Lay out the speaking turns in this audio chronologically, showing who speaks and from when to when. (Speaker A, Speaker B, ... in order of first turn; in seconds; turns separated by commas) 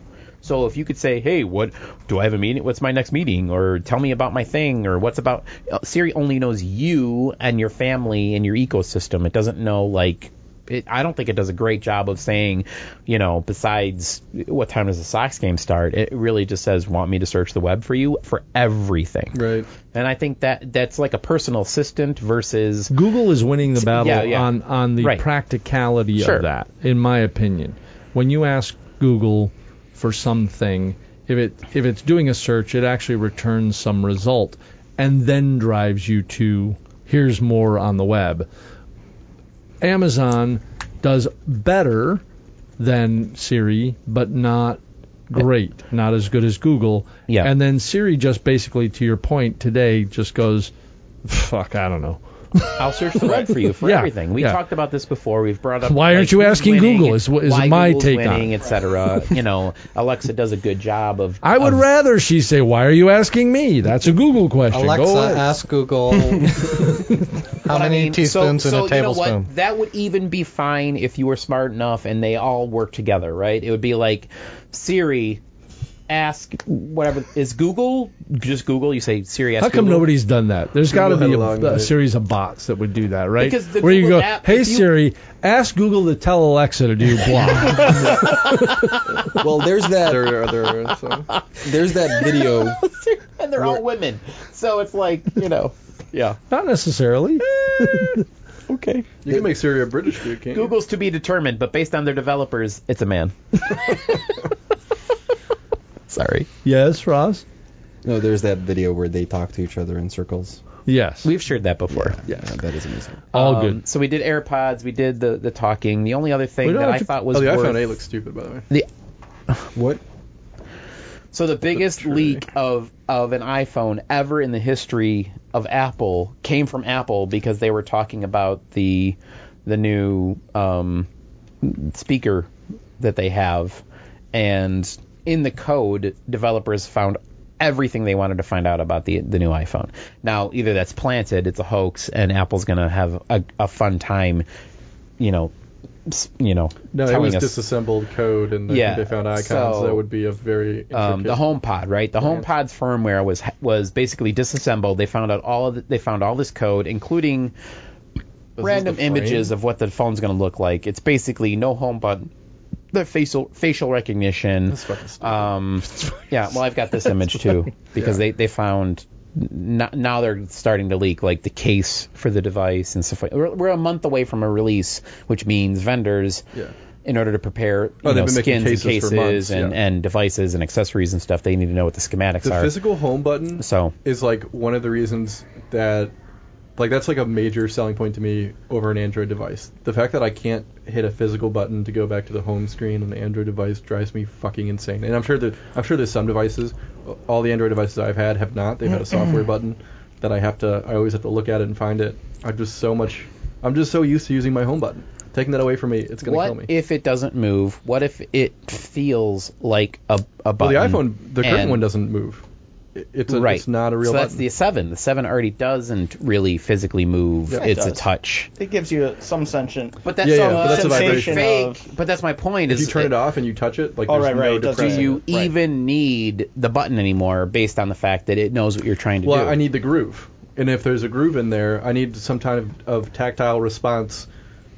Speaker A: 0.4-19.4, Speaker B: 19.3-19.7, Speaker A: 19.9-22.9, Speaker C: 22.9-38.5, Speaker A: 23.8-25.2, Speaker A: 26.2-26.4, Speaker C: 39.8-42.2, Speaker C: 42.8-50.7, Speaker C: 51.2-54.6, Speaker A: 52.8-61.8, Speaker C: 55.8-59.3, Speaker C: 61.4-65.6, Speaker D: 64.7-69.5, Speaker C: 66.6-67.1, Speaker A: 67.7-75.4, Speaker A: 76.1-80.1, Speaker C: 79.6-89.4, Speaker B: 80.9-81.9, Speaker A: 83.4-84.9, Speaker A: 87.3-88.9, Speaker E: 89.3-90.5, Speaker B: 90.0-91.3, Speaker A: 91.3-96.4, Speaker E: 91.6-92.8, Speaker C: 96.5-98.2, Speaker A: 97.6-98.0, Speaker A: 98.7-99.1, Speaker B: 99.2-100.7, Speaker A: 100.3-104.5, Speaker A: 106.1-106.5, Speaker C: 106.6-107.4, Speaker E: 108.0-110.6, Speaker C: 110.8-111.3, Speaker A: 111.2-112.2, Speaker E: 111.9-113.2, Speaker C: 113.3-113.8, Speaker A: 113.3-118.0, Speaker C: 116.6-117.1, Speaker B: 117.3-118.6, Speaker E: 119.7-120.0, Speaker A: 121.3-131.1, Speaker B: 121.7-122.4, Speaker A: 131.6-133.8, Speaker A: 134.3-144.4, Speaker A: 145.2-145.5, Speaker A: 146.1-147.6, Speaker B: 146.9-151.4, Speaker A: 148.7-150.0, Speaker A: 150.9-157.5, Speaker B: 152.2-152.5, Speaker B: 158.6-159.5, Speaker A: 158.6-162.3, Speaker A: 162.9-176.4, Speaker B: 164.7-165.5, Speaker B: 167.9-168.2, Speaker A: 177.0-182.8, Speaker B: 178.0-179.8, Speaker B: 182.4-186.1, Speaker A: 183.6-183.9, Speaker B: 186.8-206.7, Speaker A: 206.2-211.8, Speaker B: 210.6-212.4, Speaker B: 212.9-214.4, Speaker A: 213.3-218.5, Speaker B: 217.5-217.7, Speaker F: 217.6-221.8, Speaker A: 220.0-223.2, Speaker B: 220.2-221.5, Speaker B: 222.7-225.2, Speaker F: 224.0-225.5, Speaker A: 224.7-229.6, Speaker B: 229.2-234.3